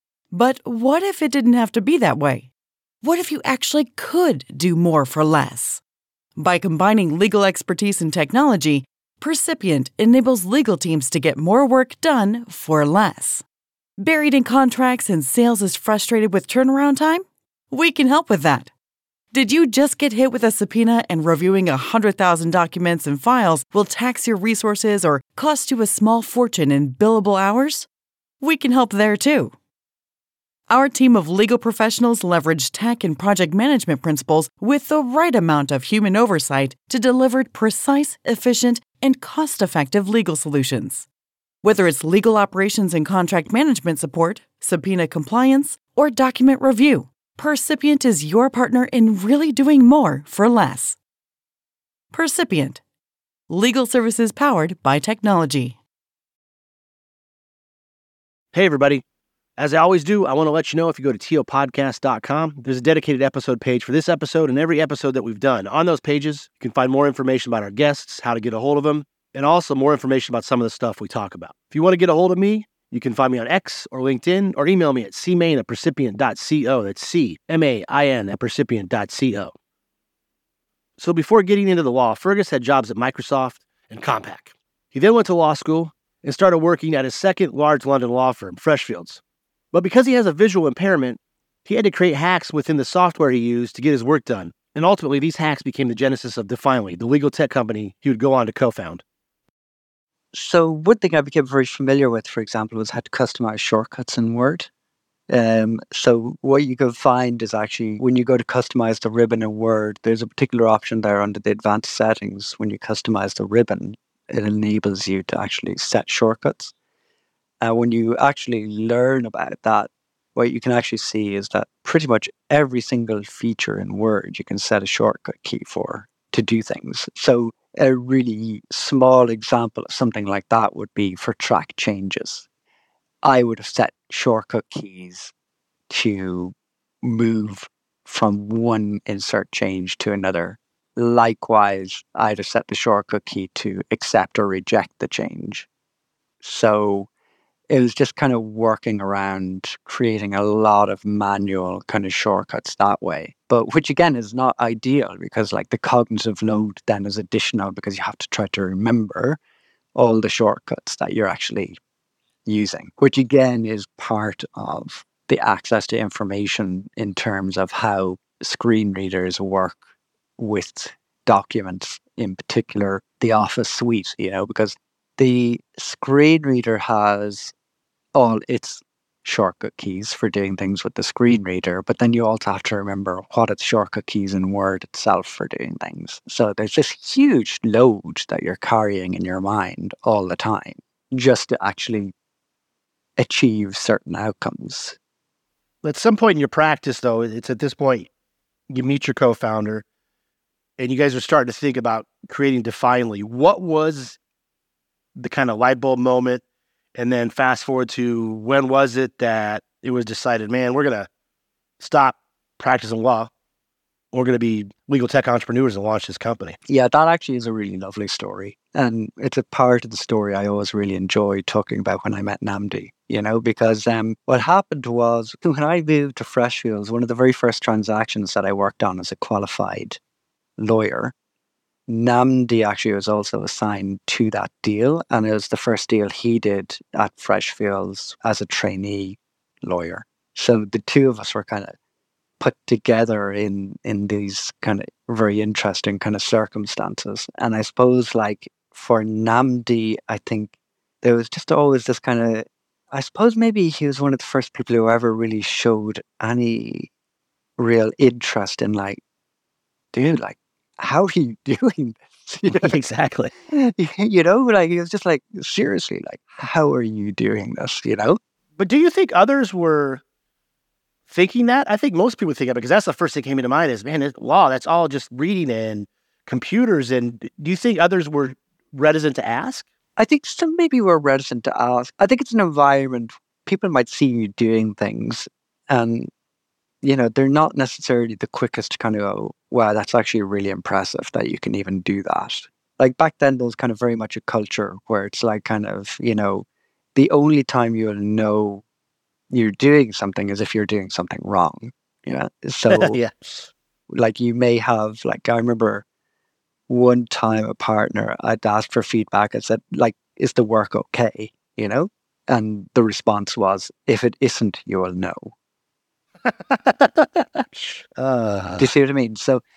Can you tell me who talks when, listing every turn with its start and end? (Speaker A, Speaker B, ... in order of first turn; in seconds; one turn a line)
Speaker A: 0.3-2.5
Speaker A: 3.0-5.8
Speaker A: 6.4-13.4
Speaker A: 14.0-18.7
Speaker A: 19.3-27.9
Speaker A: 28.4-29.5
Speaker A: 30.7-41.1
Speaker A: 41.6-51.0
Speaker A: 52.1-52.8
Speaker A: 53.5-55.8
Speaker B: 58.5-59.0
Speaker B: 59.6-79.5
Speaker B: 81.0-89.2
Speaker B: 89.7-99.0
Speaker C: 100.3-104.7
Speaker C: 105.3-116.7
Speaker C: 117.6-132.5
Speaker C: 133.2-135.3
Speaker C: 135.9-145.7
Speaker C: 146.4-147.1
Speaker C: 147.7-159.4
Speaker C: 159.9-161.8
Speaker C: 162.5-169.8
Speaker C: 170.4-177.5
Speaker C: 178.2-192.1
Speaker C: 193.2-195.0
Speaker B: 195.8-198.1
Speaker B: 198.7-199.8
Speaker B: 200.8-204.2
Speaker B: 205.2-206.4
Speaker B: 206.9-211.1
Speaker B: 211.8-213.3
Speaker B: 214.1-216.6
Speaker C: 216.7-230.0
Speaker C: 230.6-231.1
Speaker C: 231.9-241.7
Speaker C: 242.4-256.9
Speaker C: 257.6-259.0
Speaker C: 259.9-262.8
Speaker B: 262.5-263.3
Speaker C: 263.5-268.2
Speaker B: 268.6-270.0
Speaker B: 271.1-279.7
Speaker C: 280.0-286.1
Speaker C: 286.8-298.6
Speaker C: 299.3-303.0
Speaker B: 302.7-303.5
Speaker C: 303.9-305.9
Speaker C: 306.7-315.3
Speaker B: 316.2-318.7
Speaker C: 318.6-319.4